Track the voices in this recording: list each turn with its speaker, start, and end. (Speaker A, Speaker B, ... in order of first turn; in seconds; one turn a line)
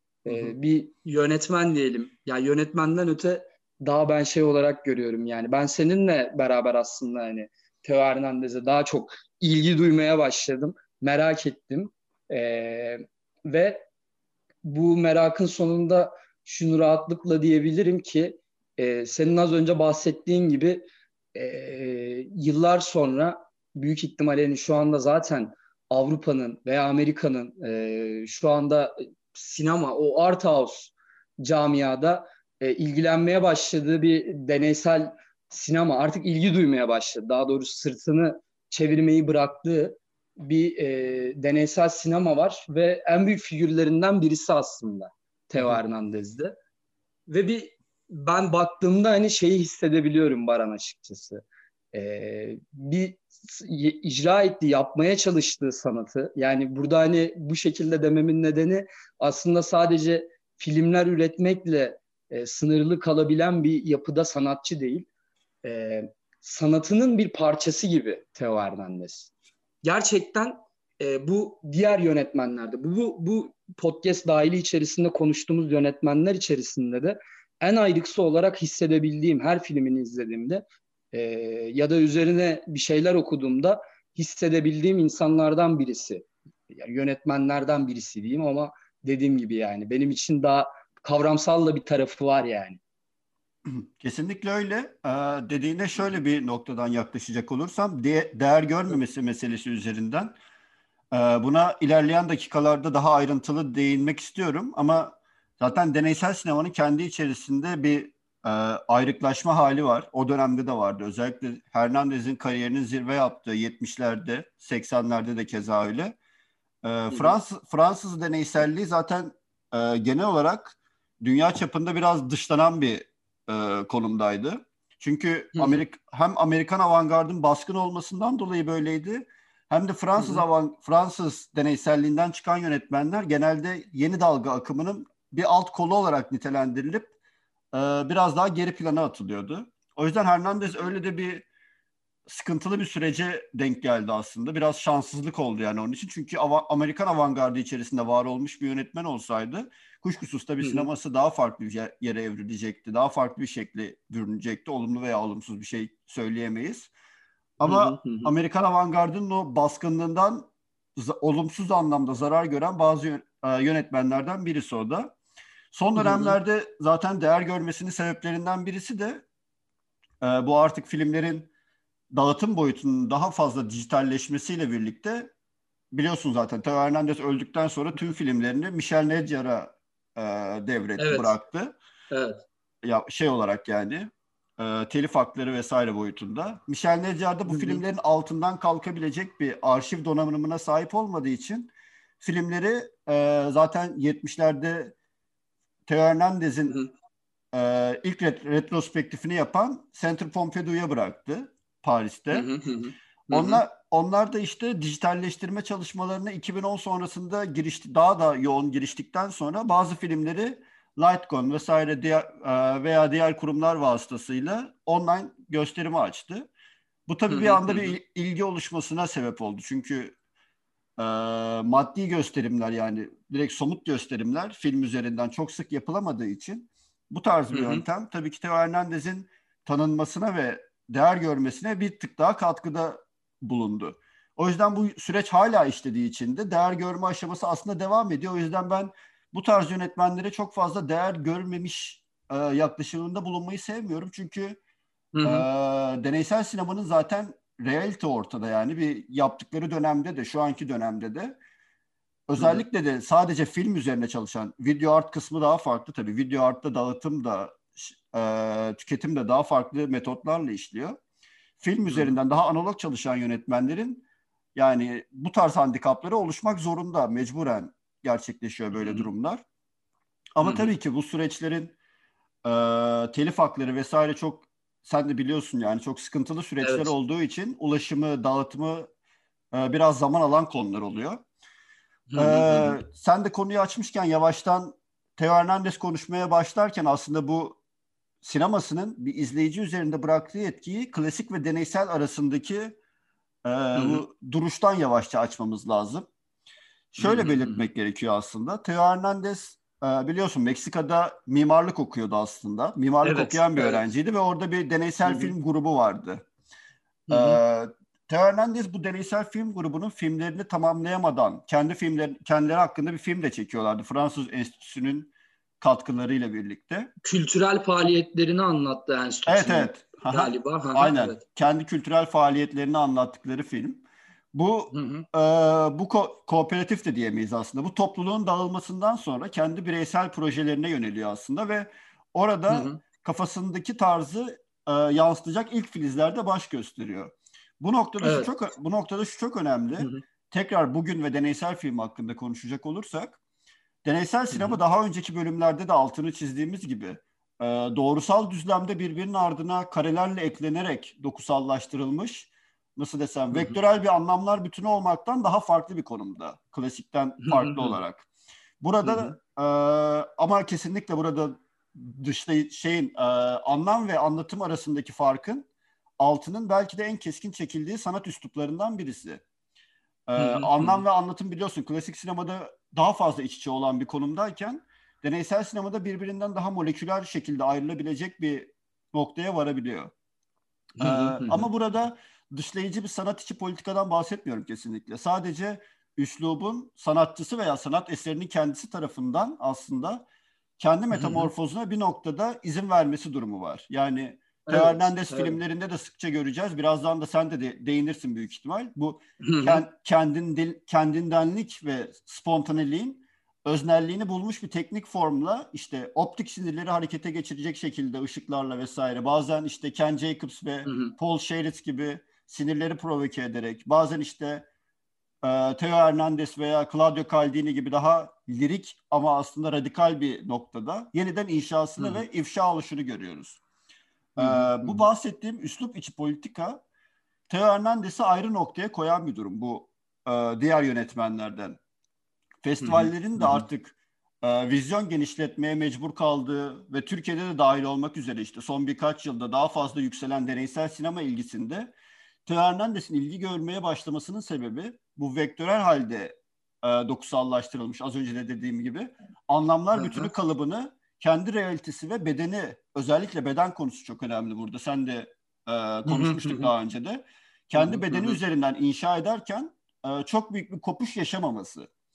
Speaker A: 0.3-13.9
Speaker B: 0.3-0.6
Speaker A: 14.7-46.5
Speaker A: 47.3-65.1
Speaker A: 65.6-69.3
Speaker A: 69.8-92.8
Speaker B: 93.7-100.3
Speaker B: 101.1-116.2
Speaker B: 116.8-137.1
Speaker A: 117.1-117.4
Speaker A: 125.5-125.8
Speaker A: 130.2-130.4
Speaker B: 137.7-141.5
Speaker B: 142.3-156.9
Speaker A: 150.6-150.9
Speaker B: 157.6-165.2
Speaker A: 157.6-158.3
Speaker B: 165.7-169.2
Speaker A: 166.0-166.4
Speaker B: 170.2-171.5
Speaker B: 172.1-175.3
Speaker B: 175.9-181.8
Speaker A: 181.0-181.3
Speaker A: 182.1-182.4
Speaker B: 182.8-194.9
Speaker A: 187.5-187.8
Speaker B: 195.9-196.8
Speaker B: 197.5-202.5
Speaker A: 202.3-203.6
Speaker B: 203.3-216.5
Speaker B: 217.1-220.2
Speaker A: 217.3-218.0
Speaker B: 221.0-244.6
Speaker A: 227.5-227.8
Speaker A: 245.2-245.4
Speaker B: 245.2-251.4
Speaker B: 252.3-261.0
Speaker B: 261.6-269.4
Speaker A: 261.9-262.2
Speaker A: 268.8-269.1
Speaker B: 270.4-271.8
Speaker A: 270.4-270.7
Speaker B: 272.4-278.9
Speaker A: 276.6-276.9
Speaker B: 279.5-281.2
Speaker A: 282.1-282.8
Speaker B: 282.2-287.6
Speaker B: 288.2-292.8
Speaker B: 293.4-296.1
Speaker A: 293.8-294.0
Speaker B: 296.9-306.2
Speaker A: 297.0-297.7
Speaker A: 303.0-303.8
Speaker A: 305.0-305.3
Speaker A: 307.1-307.4
Speaker B: 307.1-316.9
Speaker A: 317.0-321.2
Speaker B: 319.3-343.2
Speaker A: 324.7-325.1
Speaker A: 332.5-332.8
Speaker A: 338.0-338.3
Speaker B: 343.9-358.1
Speaker A: 344.3-344.6
Speaker A: 357.2-357.8
Speaker B: 358.6-365.5
Speaker A: 358.8-359.2
Speaker B: 366.0-369.2
Speaker B: 370.1-379.9
Speaker A: 370.2-370.8
Speaker A: 380.8-381.5
Speaker B: 380.8-390.1
Speaker B: 390.6-414.5
Speaker A: 390.9-391.3
Speaker A: 394.5-395.4
Speaker A: 399.2-399.6
Speaker A: 410.7-410.9
Speaker B: 415.2-423.4
Speaker A: 421.8-422.1
Speaker B: 424.2-426.6
Speaker A: 424.2-424.9
Speaker B: 427.3-431.6
Speaker B: 432.4-441.7
Speaker A: 432.6-433.4
Speaker B: 442.3-461.7
Speaker A: 449.8-450.1
Speaker A: 455.9-456.5
Speaker A: 457.6-458.2